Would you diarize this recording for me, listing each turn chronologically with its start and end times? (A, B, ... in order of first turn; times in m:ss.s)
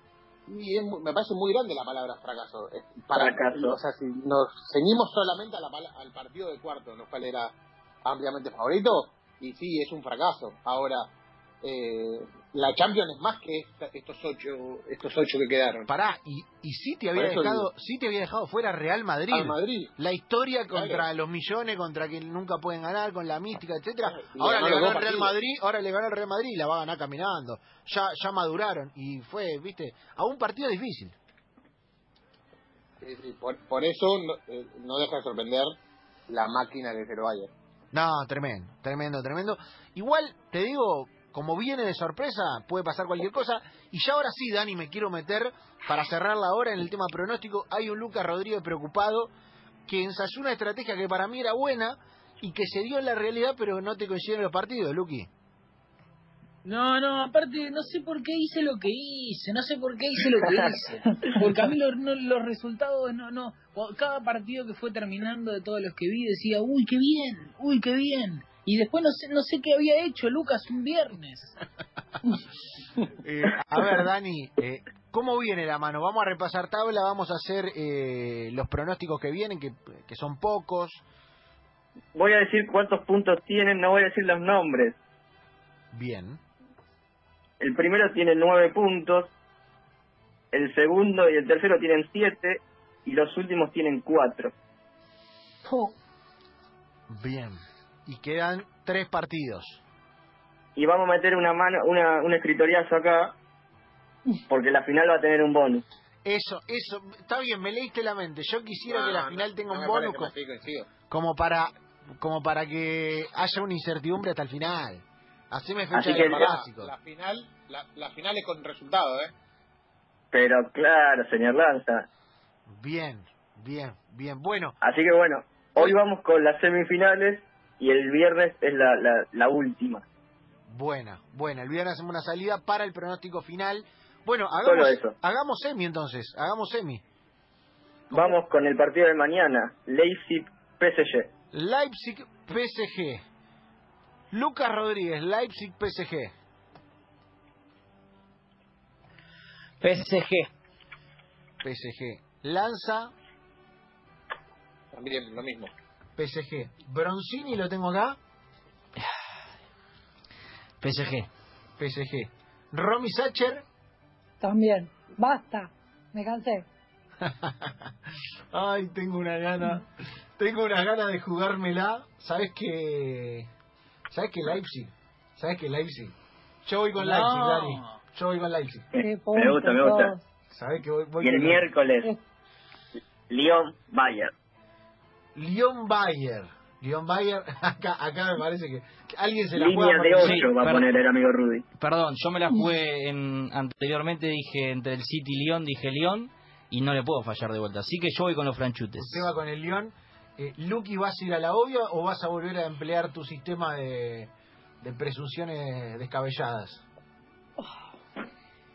0:00.5-0:11.1 A
0:03.1-0:03.8 B
0:11.6-0:15.9 A
0:15.8-0:31.2 C
0:17.1-0:17.7 A
0:19.3-0:19.9 A
0:20.7-0:21.0 A
0:24.0-0:25.3 A
0:33.0-0:35.7 A
0:36.3-0:37.5 A
0:37.9-0:49.3 C
0:49.8-0:55.3 C
0:56.6-1:11.6 D
1:13.2-1:21.0 C
1:22.1-1:25.0 B
1:25.9-1:26.4 C
1:27.6-1:29.3 B
1:30.5-1:34.5 B
1:35.6-1:35.9 E
1:37.1-1:39.8 C
1:40.8-1:43.3 B
1:44.5-1:45.8 B
1:46.2-1:50.3 C
1:48.8-1:50.9 A
1:51.1-1:56.9 C
1:55.9-1:56.5 B
1:56.0-1:59.3 A
2:00.3-2:02.1 B
2:02.7-2:04.8 C
2:04.8-2:10.0 B
2:10.7-2:17.0 C
2:14.6-2:15.1 B
2:18.1-2:18.4 C
2:18.1-2:21.3 B
2:21.5-2:23.2 C
2:24.3-2:26.3 C
2:29.8-2:30.5 D
2:31.6-2:33.1 C
2:34.9-2:35.7 A
2:36.2-2:38.2 C
2:40.8-2:41.3 F
2:41.8-2:43.6 C
2:44.4-2:46.6 E
2:47.2-2:53.5 C
2:54.1-2:56.1 C
2:56.6-2:58.9 C
2:57.0-2:57.9 D
2:58.9-3:00.1 B
2:58.9-3:00.2 E
3:00.5-3:01.7 C
3:01.2-3:02.1 B
3:03.3-3:04.3 B
3:05.3-3:10.5 C
3:09.6-3:11.6 B
3:10.2-3:10.8 F
3:11.8-3:19.2 F
3:19.0-3:24.3 C
3:24.8-3:26.8 C